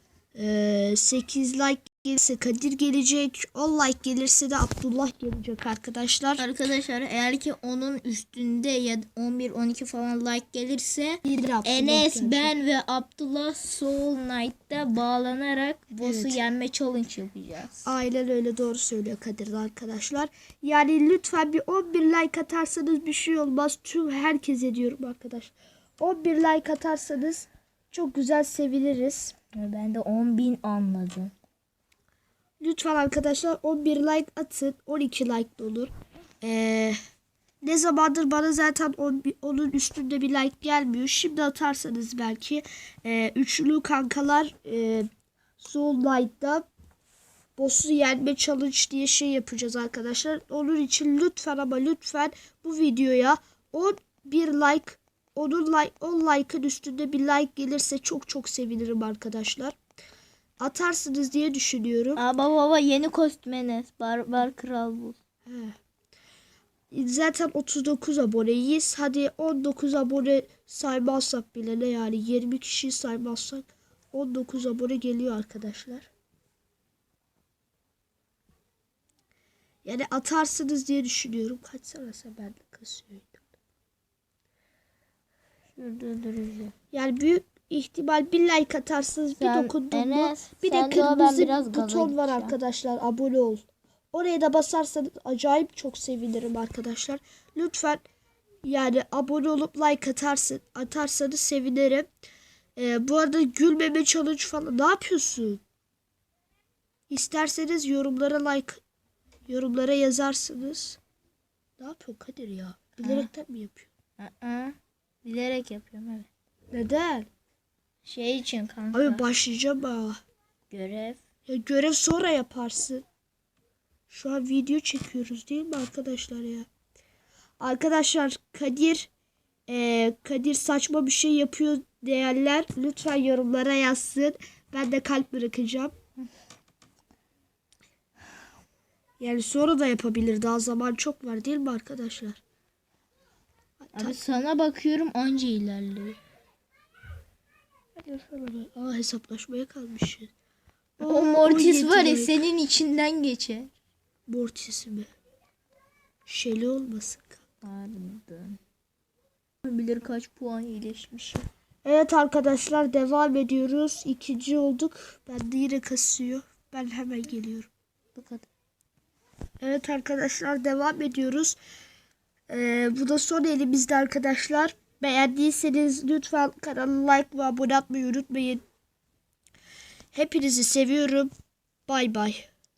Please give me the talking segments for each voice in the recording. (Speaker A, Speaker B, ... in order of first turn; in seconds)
Speaker A: 0.3-6.5, 11.2-12.5, 16.0-16.4, 17.8-29.3, 32.6-37.0, 37.6-45.1, 45.6-46.7, 47.6-59.8, 60.6-62.2, 65.5-65.8, 66.9-76.1, 79.8-83.5, 86.9-98.0, 98.6-102.1, 102.8-105.6, 107.1-108.8, 109.5-111.0, 111.8-113.9, 116.7-117.3, 118.9-120.2, 121.5-123.0, 124.1-126.7, 127.6-129.1, 129.7-135.9, 139.2-142.4, 143.8-144.2, 147.9-150.3, 151.0-152.4, 154.3-155.1, 156.2-157.4, 161.8-167.7, 169.6-171.6, 172.5-178.6, 180.1-181.3, 181.9-182.5
Speaker B: 6.4-17.9, 29.5-31.3, 62.1-65.2, 85.8-86.7, 89.4-92.5, 113.0-113.3, 114.2-116.3, 118.0-119.2, 120.7-121.2, 143.9-146.2, 151.0-153.7, 157.6-158.6, 159.6-161.4, 168.1-168.4